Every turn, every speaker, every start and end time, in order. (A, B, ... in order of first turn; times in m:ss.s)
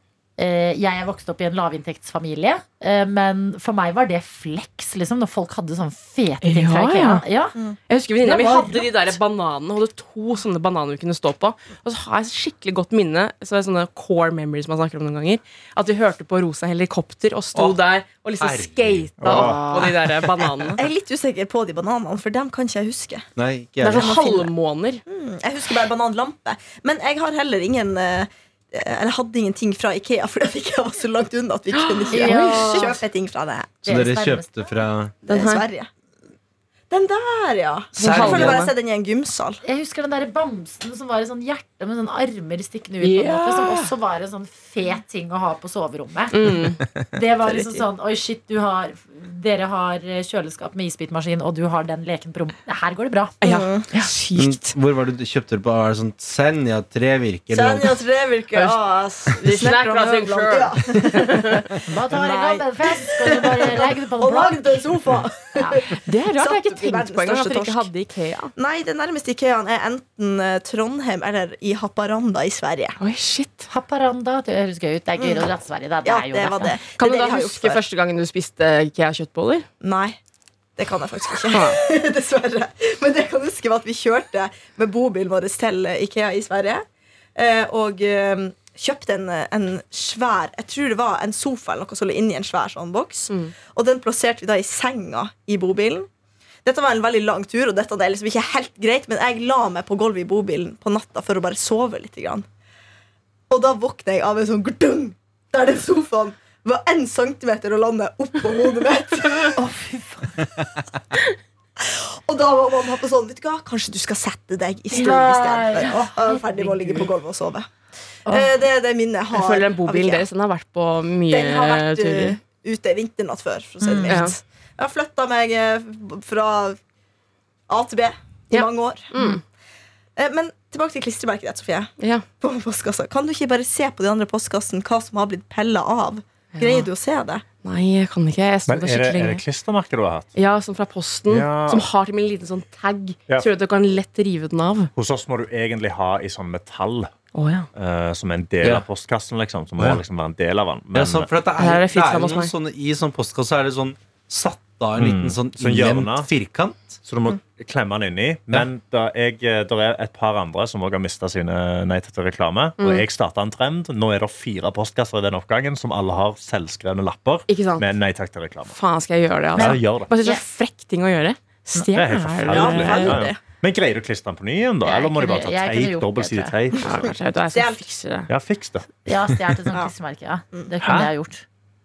0:00.4-0:07.6 A
0:06.4-0:07.2 B
0:07.9-0:20.8 B
0:08.2-0:08.9 A
0:17.6-0:17.8 C
0:18.4-0:19.1 C
0:19.2-0:19.7 D
0:19.3-0:20.0 A
0:20.8-0:23.3 E
0:23.4-0:24.2 C
0:23.8-0:25.0 B
0:23.9-0:24.5 E
0:25.1-0:33.7 E
0:31.7-0:33.0 B
0:32.1-0:32.9 A
0:33.8-0:35.2 C
0:33.9-0:34.7 A
0:35.3-0:35.6 B
0:35.3-0:35.9 E
0:36.9-0:39.6 E
0:38.0-0:38.6 C
0:38.0-0:38.7 B
0:39.6-0:46.5 A
0:43.0-0:43.9 B
0:46.3-0:46.8 B
0:47.1-0:53.4 A
0:47.5-0:47.8 B
0:53.4-0:54.8 B
0:53.4-0:53.9 E
0:54.4-0:58.0 C
0:57.5-1:07.9 E
0:58.5-1:01.6 B
1:01.9-1:04.9 A
1:05.6-1:05.8 A
1:06.1-1:08.5 B
1:08.6-1:13.0 E
1:13.0-1:13.7 B
1:13.7-1:16.8 A
1:15.2-1:15.5 E
1:16.0-1:17.8 E
1:17.0-1:19.7 B
1:19.8-1:20.2 E
1:20.8-1:26.8 E
1:21.5-1:21.8 B
1:27.4-1:36.1 E
1:36.6-1:42.5 E
1:43.5-1:49.6 E
1:49.6-1:50.4 A
1:51.8-1:57.7 E
1:54.9-1:57.1 A
1:58.3-1:58.6 A
1:58.3-2:00.3 E
1:59.3-2:02.4 B
2:01.3-2:06.8 E
2:03.8-2:04.3 A
2:04.1-2:04.4 B
2:07.7-2:09.4 E
2:08.5-2:09.4 B
2:10.2-2:17.4 E
2:16.6-2:16.9 B
2:17.6-2:19.4 B
2:18.7-2:20.3 D
2:20.4-2:24.9 B
2:21.3-2:21.9 D
2:25.0-2:27.1 D
2:27.3-2:27.7 B
2:27.8-2:31.3 D
2:29.8-2:30.0 C
2:30.9-2:37.0 C
2:31.6-2:32.5 B
2:35.0-2:36.3 D
2:37.0-2:48.8 D
2:42.8-2:43.0 B
2:47.5-2:47.8 B
2:48.7-2:53.2 B
2:49.6-2:50.1 D
2:49.6-2:50.4 A
2:51.9-2:56.9 D
2:52.5-2:53.4 E
2:54.8-2:56.6 A
2:56.8-2:57.8 E
2:56.8-2:58.3 B
2:58.3-2:59.3 D
2:59.1-3:01.4 A
3:00.8-3:01.1 D